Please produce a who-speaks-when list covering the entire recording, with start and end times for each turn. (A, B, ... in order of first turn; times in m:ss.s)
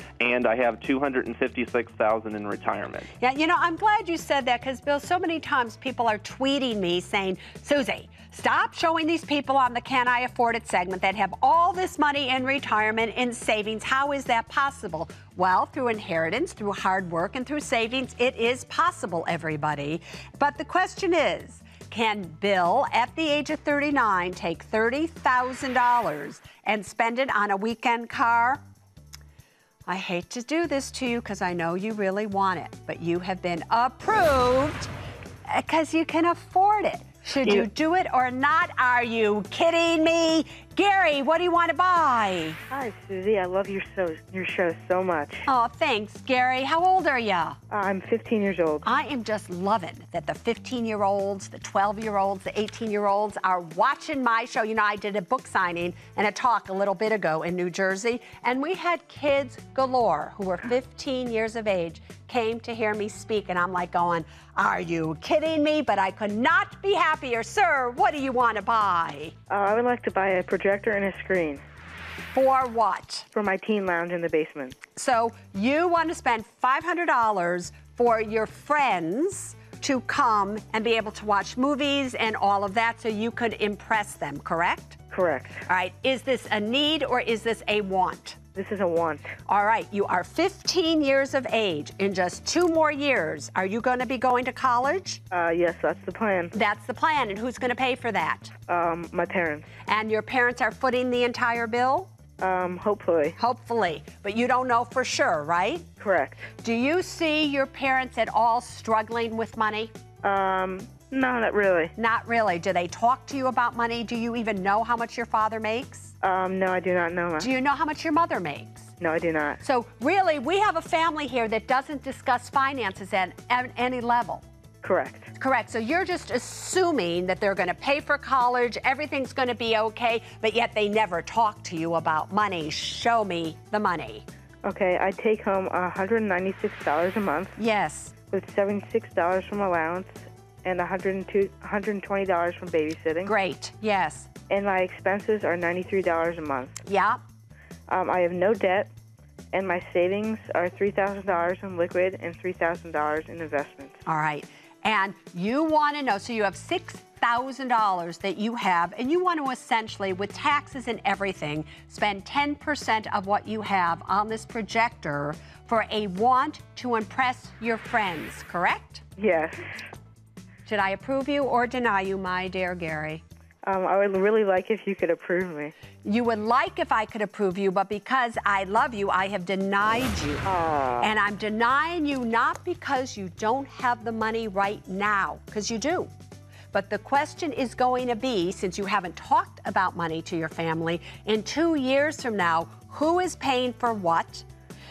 0:00.2-0:03.1 A
0:03.2-0:28.6 B
0:29.9-0:34.9 B
0:35.5-0:42.6 B
0:42.7-0:45.5 C
0:45.5-0:47.6 B
0:47.7-0:48.9 C
0:48.8-1:09.3 B
1:09.5-1:11.6 C
1:12.3-1:13.3 B
1:13.3-1:14.8 C
1:15.0-1:25.0 B
1:25.1-1:25.6 C
1:25.7-1:28.4 B
1:28.6-1:29.3 C
1:29.5-1:35.2 B
1:35.3-1:36.5 C
1:36.5-1:38.5 B
1:38.7-1:39.7 C
1:39.9-1:42.1 B
1:42.4-1:43.4 C
1:43.4-1:45.9 B
1:46.0-1:46.5 C
1:46.6-1:49.9 B
1:50.2-1:51.9 C
1:52.0-1:56.1 B
1:56.2-1:57.5 C
1:57.4-1:58.9 B
1:59.0-1:59.6 C
1:59.6-2:04.4 B
2:04.8-2:05.3 C
2:05.4-2:14.2 B
2:14.6-2:17.6 C
2:17.6-2:18.1 B
2:18.3-2:23.3 C
2:23.2-2:24.3 B
2:24.5-2:26.8 C
2:26.8-2:27.2 B
2:27.9-2:28.9 C
2:29.5-2:34.0 C
2:34.0-2:49.0 B
2:49.2-2:49.8 C
2:50.7-2:53.2 B
2:53.6-2:55.7 C
2:56.0-3:00.5 B
3:00.4-3:01.1 C
3:01.0-3:06.1 B
3:06.7-3:14.5 B